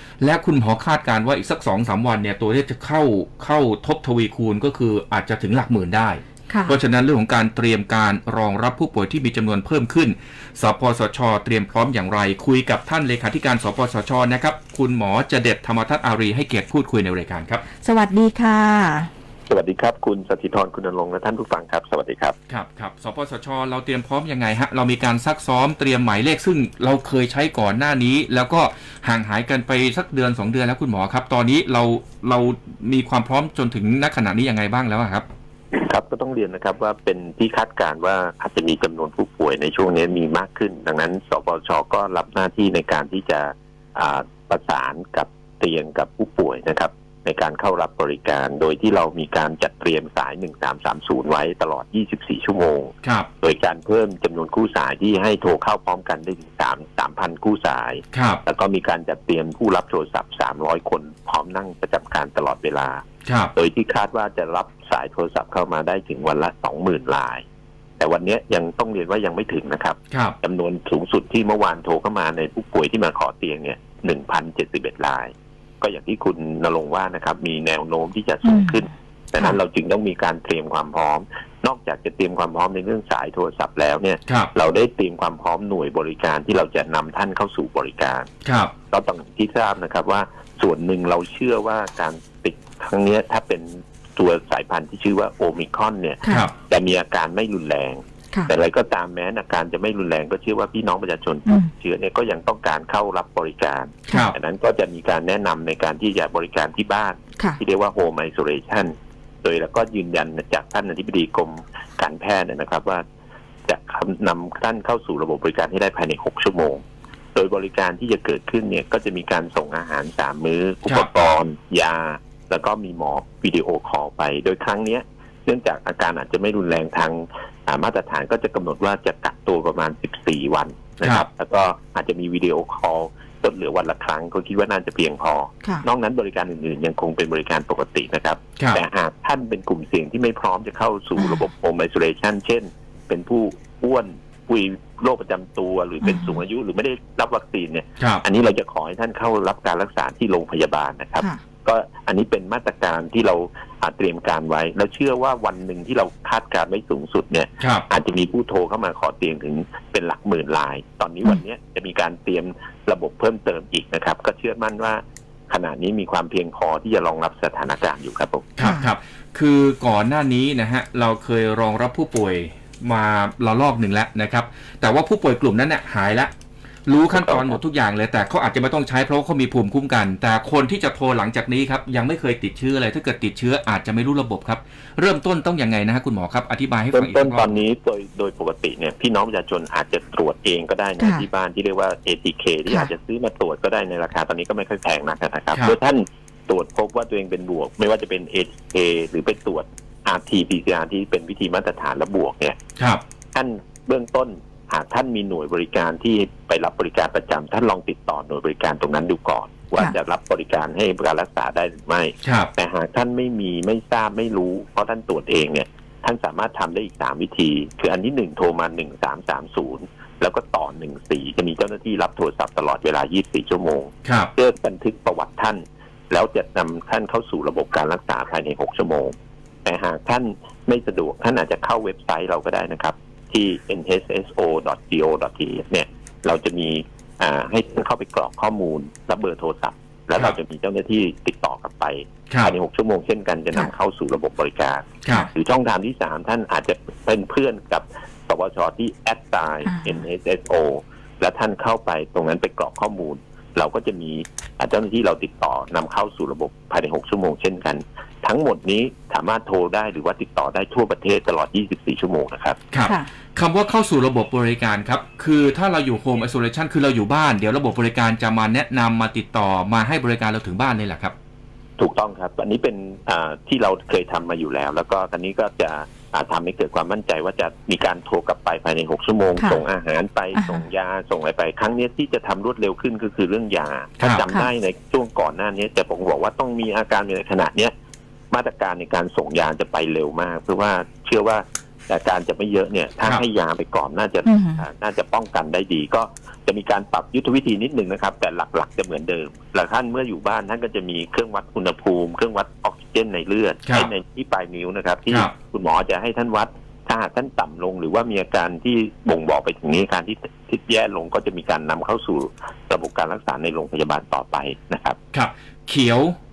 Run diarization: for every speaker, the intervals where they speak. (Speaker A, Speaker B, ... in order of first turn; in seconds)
Speaker A: 0.2-17.6, 22.5-35.3, 53.0-53.3, 58.1-58.4, 63.2-63.5, 70.1-70.3, 84.3-84.5, 88.4-88.7, 120.9-121.3, 157.6-157.8, 168.6-176.3, 176.9-187.6, 202.8-203.0, 212.2-212.5, 224.0-224.3, 262.7-271.1, 315.1-316.1
Speaker B: 6.5-6.8, 17.8-19.1, 78.4-78.8, 101.5-101.7, 141.2-141.4, 146.0-146.4, 168.6-168.8, 191.0-191.2, 249.7-250.0, 279.4-279.6, 280.3-280.6, 294.2-294.6
Speaker C: 19.5-22.4, 35.7-63.0, 63.5-67.4, 68.0-88.3, 88.9-108.9, 109.4-113.0, 113.7-116.8, 117.3-168.5, 177.1-177.6, 186.9-202.6, 203.3-229.1, 229.6-262.6, 271.8-287.7, 288.3-315.0